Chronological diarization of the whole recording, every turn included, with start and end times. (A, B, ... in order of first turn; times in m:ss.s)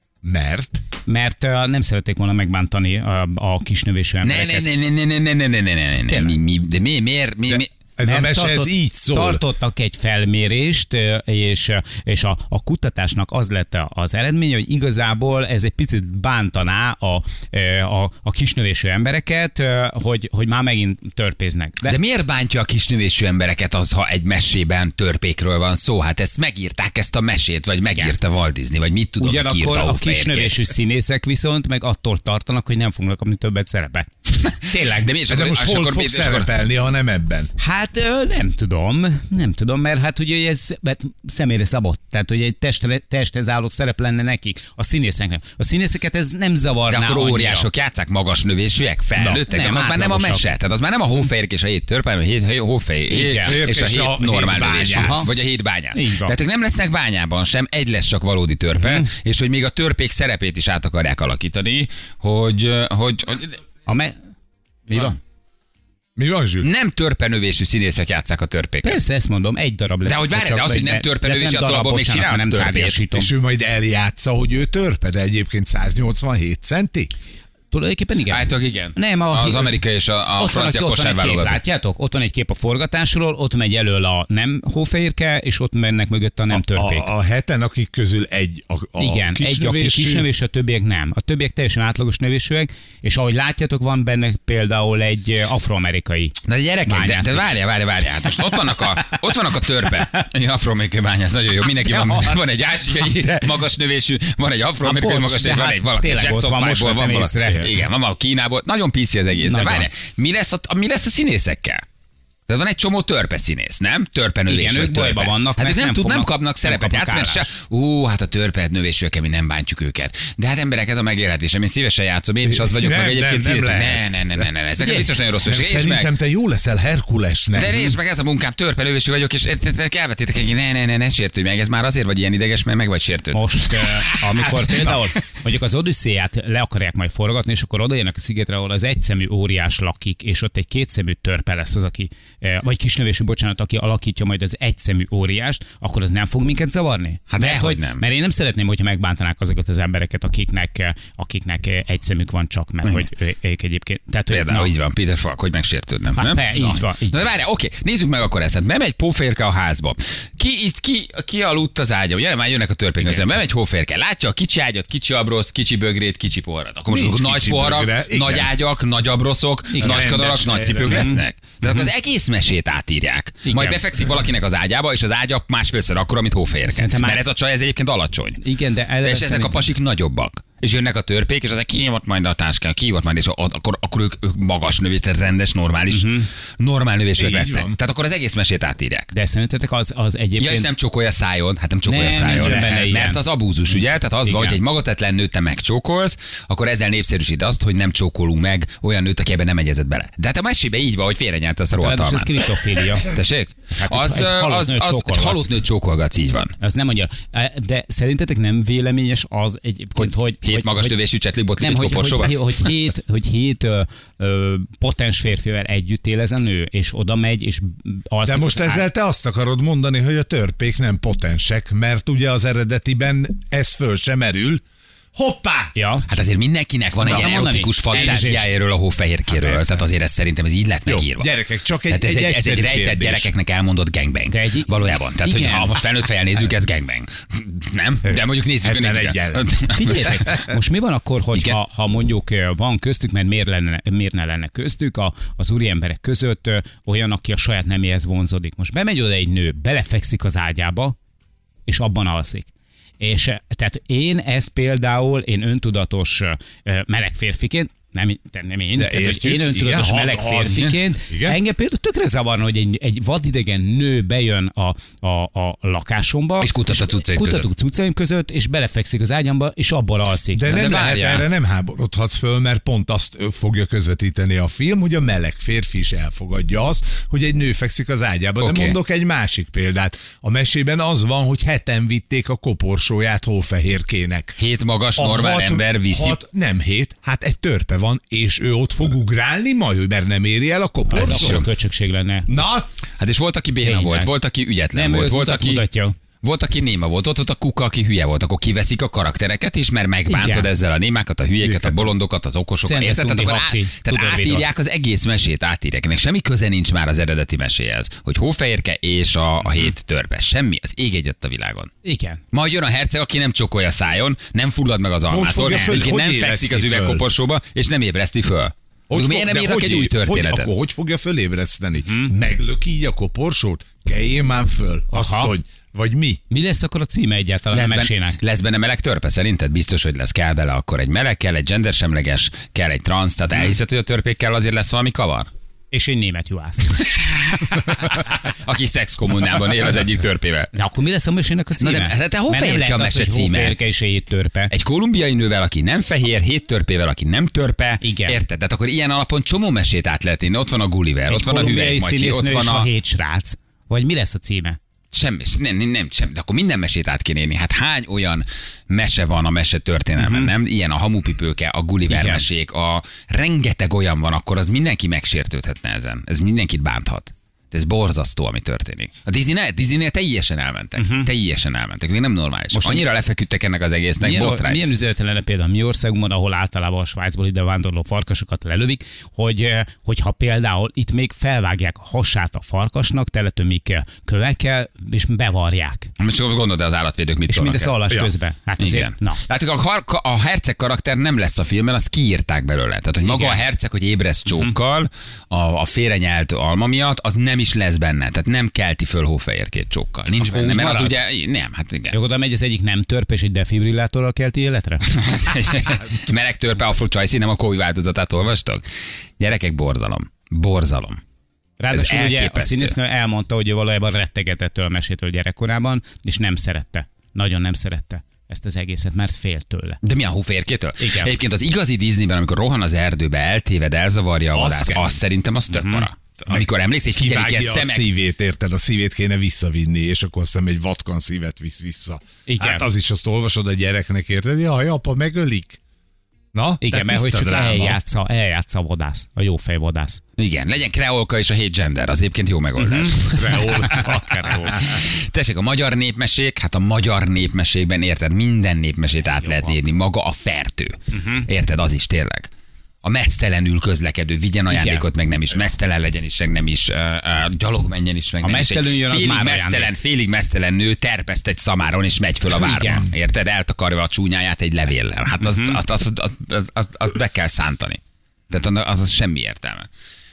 0:00.2-0:00.8 A
0:01.1-0:04.6 B
0:04.2-0:07.7 C
0:06.1-0:06.4 B
0:07.5-0:09.4 A
0:08.0-0:22.0 B
0:21.8-0:30.6 C
0:29.2-0:35.1 B
0:34.4-0:36.5 C
0:35.3-0:37.5 A
0:37.6-0:47.7 B
0:46.9-1:03.6 C
0:49.2-0:49.4 A
0:49.5-0:50.5 B
0:53.1-0:53.6 B
0:53.4-0:55.3 A
0:55.0-0:55.3 B
0:55.9-0:56.4 B
0:58.8-0:59.1 B
1:03.9-1:04.1 B
1:04.9-1:05.2 B
1:06.2-1:06.7 A
1:06.6-1:09.0 C
1:08.8-1:13.3 B
1:10.0-1:13.0 C
1:13.1-1:17.1 A
1:17.7-1:27.1 B
1:18.3-1:21.6 C
1:26.5-1:30.3 A
1:29.0-1:37.6 B
1:36.4-1:51.8 C
1:42.0-1:42.4 B
1:44.8-1:47.8 B
1:49.4-1:49.9 B
1:52.5-2:06.1 C
1:54.5-1:57.5 B
2:02.4-2:04.5 A
2:04.8-2:05.1 B
2:05.4-2:08.0 A
2:07.6-2:15.0 C
2:13.3-2:34.8 B
2:27.3-2:28.0 C
2:34.3-2:58.4 C
2:36.2-2:37.3 B
2:46.9-2:48.6 A
2:49.7-2:50.2 B
2:49.8-2:51.1 A
2:50.8-2:51.9 B
2:53.4-2:53.8 B
2:56.6-2:57.2 B
2:58.4-2:59.7 B
2:59.0-3:09.1 C
3:05.9-3:06.3 B
3:07.2-3:07.8 A
3:09.1-3:10.7 B
3:10.4-3:22.4 C
3:11.9-3:14.6 B
3:12.2-3:12.8 A
3:21.7-3:23.1 B
3:23.0-3:26.6 C
3:23.7-3:25.6 B
3:26.6-3:31.0 B
3:30.0-3:32.7 C
3:31.6-3:38.8 B
3:38.3-3:44.6 A
3:45.2-3:45.7 A
3:45.8-3:46.1 B
3:46.1-4:00.5 C
3:47.0-3:48.2 B
3:47.0-3:48.6 A
3:49.3-3:49.8 A
3:50.9-3:53.3 A
3:54.3-3:55.8 B
3:58.0-3:59.5 A
3:59.7-4:11.0 B
4:11.7-4:12.5 B
4:13.0-4:30.5 B
4:18.8-4:21.4 A
4:20.5-4:20.8 C
4:26.4-4:27.5 C
4:30.3-4:44.4 A
4:30.5-4:31.3 C
4:38.4-4:38.8 C
4:44.4-4:46.2 C
4:45.0-4:51.5 A
4:50.9-4:52.3 B
4:51.0-4:51.5 C
4:52.3-4:52.7 A
4:53.0-4:55.6 C
4:53.6-4:54.1 B
4:54.7-4:56.0 B
4:56.2-5:11.7 C
5:00.1-5:00.5 B
5:01.4-5:01.9 A
5:02.6-5:04.5 B
5:11.8-5:12.2 B
5:12.3-5:20.5 C
5:15.1-5:17.1 A
5:18.9-5:26.2 A
5:21.9-5:22.1 B
5:24.9-5:25.3 B
5:26.3-5:28.2 B
5:27.5-5:35.3 C
5:35.7-5:36.8 B
5:36.7-5:40.5 C
5:40.5-5:44.5 B
5:41.6-5:43.6 C
5:44.5-5:52.7 C
5:47.8-5:48.2 B
5:51.1-5:54.6 B
5:54.9-6:14.6 C
6:00.0-6:00.3 B
6:01.9-6:02.3 B
6:10.8-6:11.1 B
6:12.5-6:12.9 B
6:14.0-6:25.9 B
6:26.0-6:27.8 C
6:27.3-6:29.2 B
6:28.6-6:42.0 C
6:33.0-6:33.4 B
6:34.3-6:34.5 B
6:40.1-6:41.0 B
6:41.9-6:44.8 B
6:44.9-6:48.6 C
6:49.2-6:51.0 C
6:51.6-6:59.8 B
6:51.7-6:52.8 C
6:59.8-7:07.9 C
7:00.8-7:01.2 B
7:04.3-7:05.0 A
7:05.5-7:05.9 B
7:06.3-7:15.6 A
7:12.3-7:12.7 B
7:16.3-7:17.8 A
7:16.6-7:20.0 B
7:20.2-7:32.3 C
7:22.6-7:24.6 B
7:23.2-7:24.8 A
7:29.0-7:29.6 B
7:30.9-7:31.3 B
7:32.8-7:49.7 C
7:34.5-7:34.9 B
7:38.2-7:39.7 B
7:42.3-7:42.9 B
7:45.2-7:45.6 B